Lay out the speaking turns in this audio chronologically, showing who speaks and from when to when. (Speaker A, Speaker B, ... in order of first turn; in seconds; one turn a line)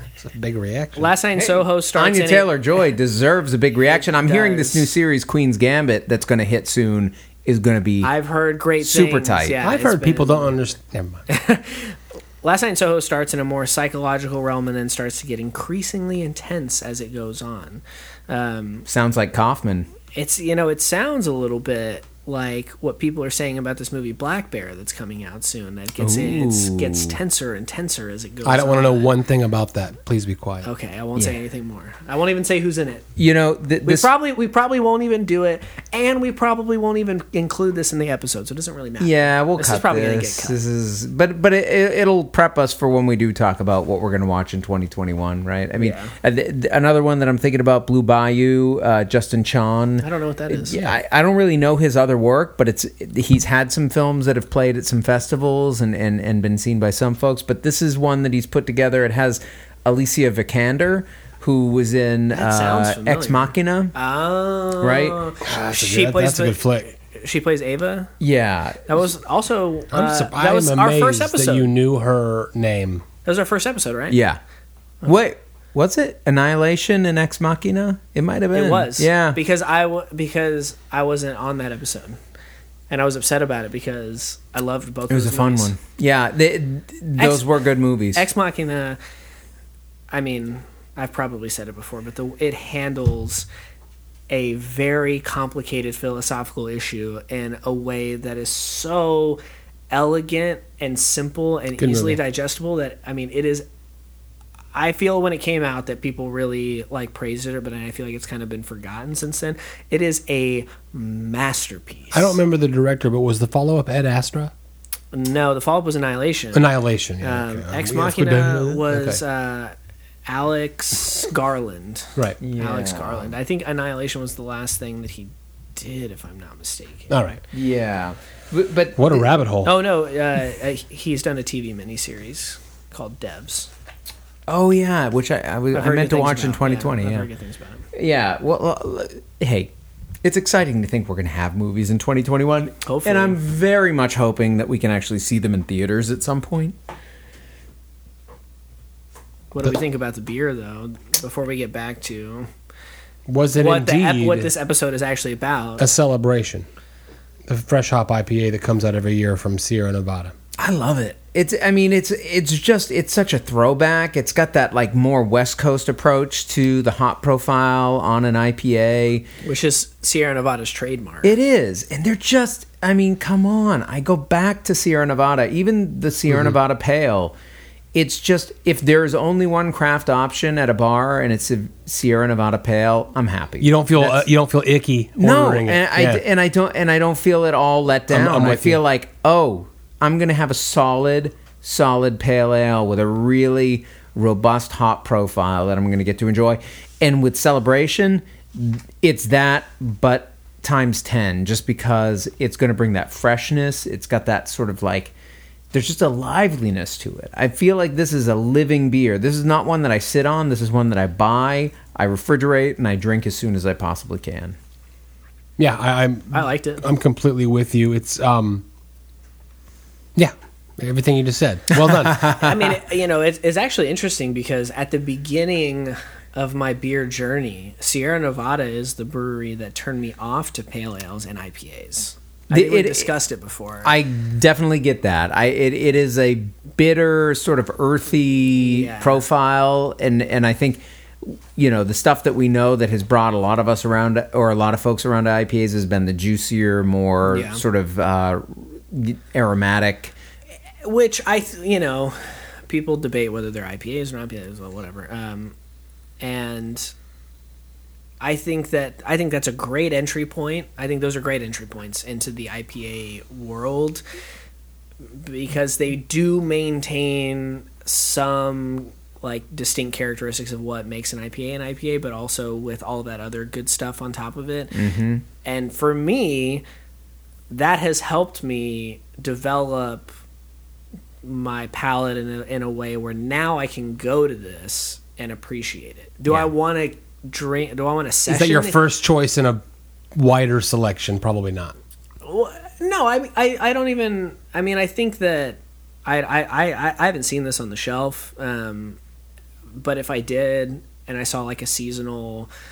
Speaker A: 0.2-1.1
Speaker B: 0.9-2.5
Speaker C: 1.4-8.1
Speaker B: 3.9-4.9
Speaker B: 8.0-10.5
Speaker C: 8.8-9.6
Speaker A: 9.6-11.2
Speaker B: 11.3-18.9
Speaker C: 18.9-19.9
Speaker B: 20.1-29.1
Speaker C: 26.0-27.1
Speaker A: 28.4-30.7
Speaker B: 30.6-33.0
Speaker C: 33.2-34.1
Speaker B: 33.8-40.6
Speaker C: 39.0-63.9
Speaker B: 45.8-46.1
Speaker B: 50.0-50.9
Speaker B: 62.3-68.1
Speaker C: 64.8-65.2
Speaker A: 65.4-66.9
Speaker C: 68.2-68.8
Speaker B: 68.9-71.7
Speaker A: 69.9-73.0
Speaker B: 73.2-74.2
Speaker C: 74.1-74.4
Speaker C: 75.0-79.4
Speaker B: 78.5-82.2
Speaker B: 82.9-85.7
Speaker C: 85.1-88.2
Speaker B: 87.2-87.4
Speaker B: 88.1-89.0
Speaker B: 90.1-93.5
Speaker B: 94.3-103.7
Speaker A: 101.8-102.2
Speaker B: 104.7-112.4
Speaker A: 112.1-114.5
Speaker B: 115.1-116.7
Speaker A: 116.5-119.2
Speaker B: 117.2-119.7
Speaker B: 120.3-127.4
Speaker C: 122.4-123.3
Speaker A: 127.1-127.4
Speaker C: 127.5-129.3
Speaker A: 128.9-129.7
Speaker B: 129.6-133.7
Speaker C: 134.5-137.3
Speaker B: 135.7-137.8
Speaker C: 137.9-139.7
Speaker C: 140.2-146.8
Speaker B: 142.8-143.4
Speaker B: 149.5-152.5
Speaker A: 153.3-154.5
Speaker B: 153.5-155.9
Speaker A: 155.8-156.7
Speaker A: 157.5-160.3
Speaker C: 160.6-169.3
Speaker B: 169.4-171.3
Speaker C: 171.2-177.3
Speaker A: 176.3-176.6
Speaker C: 177.9-184.3
Speaker A: 183.6-186.2
Speaker C: 185.2-205.1
Speaker A: 188.1-188.8
Speaker C: 205.7-214.6
Speaker A: 215.6-218.6
Speaker B: 216.3-216.8
Speaker A: 220.2-222.3
Speaker C: 221.7-222.6
Speaker B: 222.3-234.0
Speaker C: 232.5-233.1
Speaker C: 233.8-250.1
Speaker B: 238.6-239.2
Speaker B: 247.2-247.6
Speaker B: 250.8-255.5
Speaker B: 256.2-256.9
Speaker B: 258.2-264.0
Speaker B: 265.1-274.8
Speaker C: 274.7-275.2
Speaker B: 275.4-276.6
Speaker B: 277.5-280.1
Speaker B: 281.2-288.8
Speaker A: 288.2-289.6
Speaker A: 290.1-291.7
Speaker B: 292.2-299.0
Speaker B: 299.7-302.5